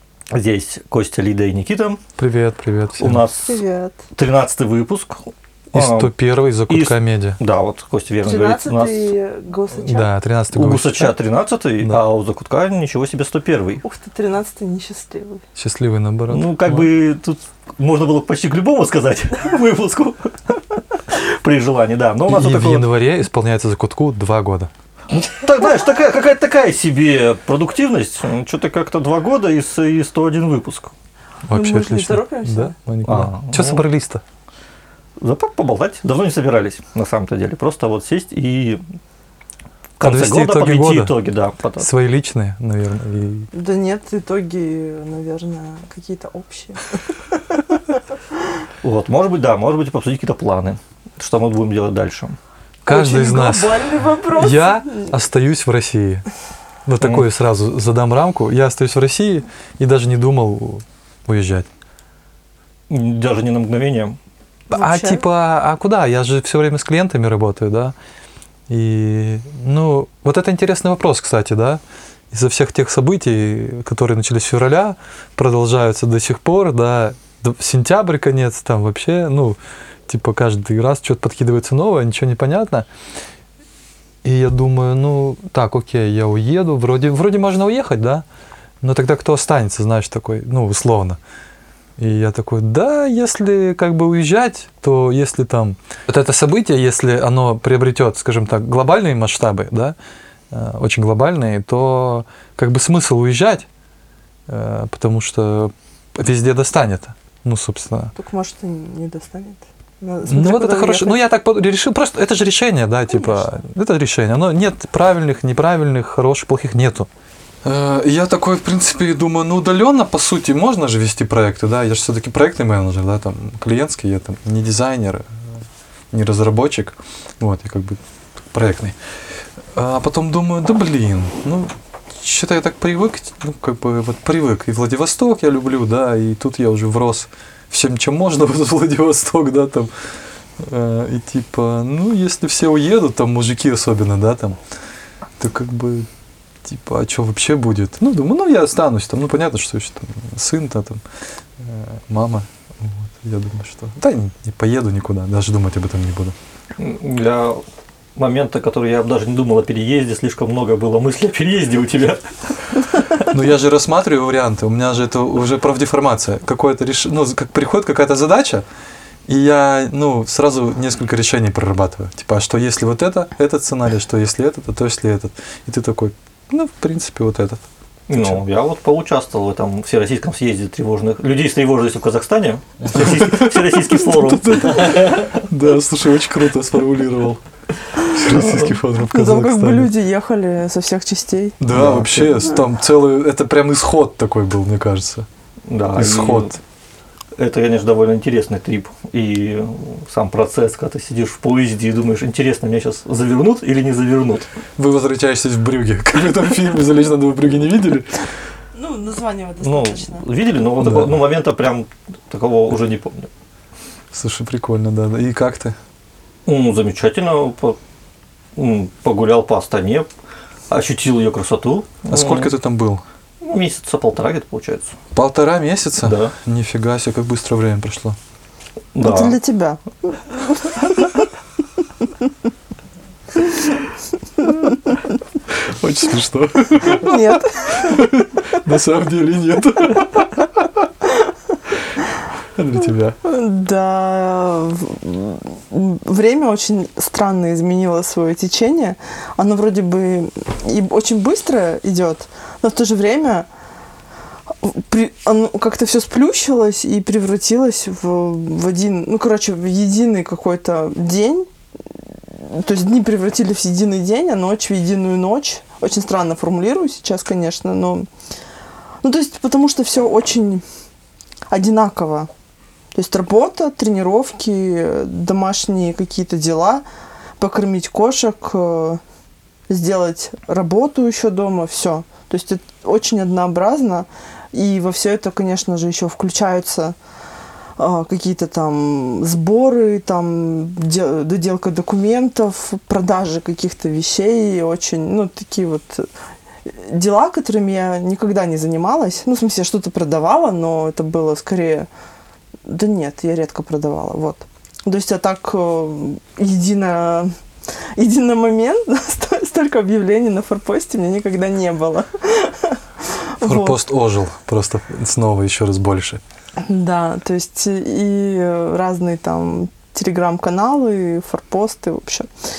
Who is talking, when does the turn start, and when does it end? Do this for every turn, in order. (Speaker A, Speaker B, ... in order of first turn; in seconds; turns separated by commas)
Speaker A: 0.3-2.0, Speaker B: 2.2-3.2, Speaker A: 3.0-3.6, Speaker C: 3.4-4.0, Speaker A: 4.1-6.1, Speaker B: 5.7-7.4, Speaker A: 6.7-9.1, Speaker C: 8.2-10.1, Speaker B: 9.8-11.2, Speaker A: 10.5-13.8, Speaker C: 13.8-15.4, Speaker B: 15.6-16.9, Speaker A: 16.3-20.6, Speaker A: 21.1-22.9, Speaker B: 22.3-24.7, Speaker A: 25.1-30.9, Speaker B: 31.5-34.2, Speaker C: 31.5-32.8, Speaker A: 33.1-33.8, Speaker A: 35.2-38.8, Speaker A: 40.0-41.9, Speaker B: 40.0-41.1, Speaker B: 41.8-43.5, Speaker C: 43.5-47.0, Speaker C: 47.5-47.8, Speaker A: 48.8-52.4, Speaker B: 52.9-56.2, Speaker C: 52.9-55.1, Speaker B: 56.9-61.7, Speaker A: 57.0-57.3, Speaker A: 62.9-64.2, Speaker C: 64.7-65.2, Speaker B: 64.7-68.0, Speaker B: 68.7-82.9, Speaker B: 84.2-88.2, Speaker B: 88.8-91.2, Speaker B: 92.0-100.0, Speaker B: 100.5-103.7, Speaker B: 104.5-108.1, Speaker C: 108.2-111.2, Speaker B: 110.3-117.1, Speaker B: 117.6-125.4, Speaker B: 126.1-128.0, Speaker B: 128.5-129.0, Speaker B: 129.7-139.9, Speaker B: 140.6-144.6, Speaker B: 145.4-146.1, Speaker B: 146.7-151.0, Speaker B: 151.6-156.4, Speaker A: 156.8-157.6, Speaker A: 158.2-162.2, Speaker A: 162.7-163.3, Speaker B: 163.3-168.6, Speaker B: 169.3-178.4, Speaker A: 178.1-185.4, Speaker B: 182.9-187.4, Speaker B: 188.1-189.9, Speaker A: 188.2-188.8, Speaker C: 189.1-191.6, Speaker B: 191.6-195.3, Speaker A: 191.7-192.5, Speaker A: 195.7-196.6, Speaker B: 196.0-196.6, Speaker A: 197.4-204.5, Speaker B: 204.8-208.2, Speaker C: 208.8-210.2, Speaker A: 209.6-213.3, Speaker B: 210.8-211.2, Speaker B: 214.1-215.8, Speaker A: 216.5-217.8, Speaker A: 218.6-220.1, Speaker A: 220.7-222.5, Speaker B: 222.1-223.0, Speaker A: 223.4-225.0, Speaker B: 225.2-228.2, Speaker A: 226.0-226.3, Speaker A: 228.9-229.4, Speaker C: 229.0-231.1, Speaker C: 234.4-234.8, Speaker B: 235.5-240.7, Speaker C: 236.8-238.0, Speaker B: 242.6-243.2, Speaker C: 243.2-253.5, Speaker C: 254.6-261.5, Speaker C: 262.3-268.1, Speaker C: 269.0-270.6, Speaker C: 271.5-272.3, Speaker C: 272.9-276.8, Speaker C: 277.4-279.0, Speaker C: 279.7-287.0, Speaker C: 287.8-296.1, Speaker C: 296.7-301.9, Speaker C: 302.7-307.3, Speaker C: 308.0-313.8, Speaker B: 313.4-316.2, Speaker C: 316.6-322.3